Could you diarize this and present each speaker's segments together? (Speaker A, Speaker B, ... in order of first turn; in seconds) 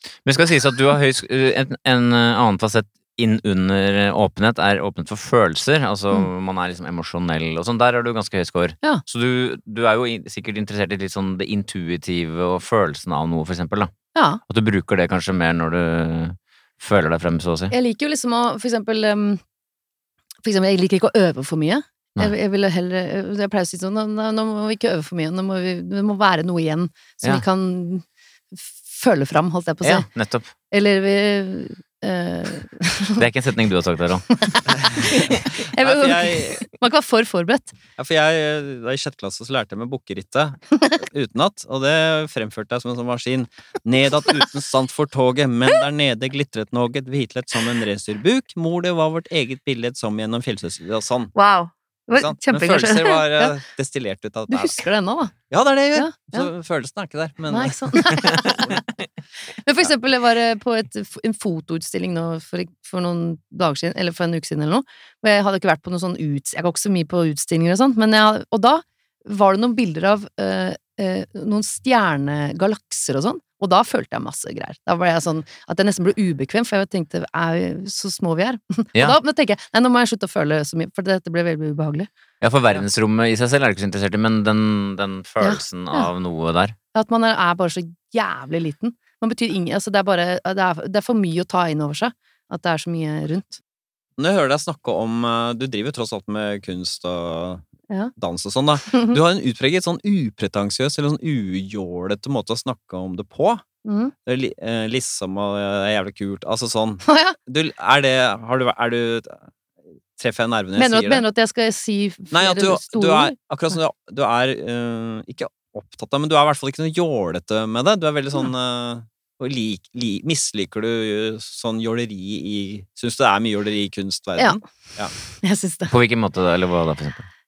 Speaker A: 0.2-13.9, 14.4-17.7, 29.8-30.5, 33.2-34.5, 82.4-86.8, 125.9-127.3
Speaker B: 14.1-14.4, 17.7-19.4, 20.4-30.1, 30.7-33.2, 34.4-37.7, 51.4-53.6, 54.5-55.3, 55.9-56.5, 57.5-58.8, 59.6-82.1, 85.4-86.1, 86.9-93.6, 103.8-104.1, 107.1-107.4, 110.8-113.3, 125.2-125.9
Speaker C: 34.7-36.6, 38.0-51.3, 52.1-54.8, 55.5-58.9, 94.2-97.6, 98.2-103.6, 104.3-109.5, 110.2-111.2, 112.3-125.1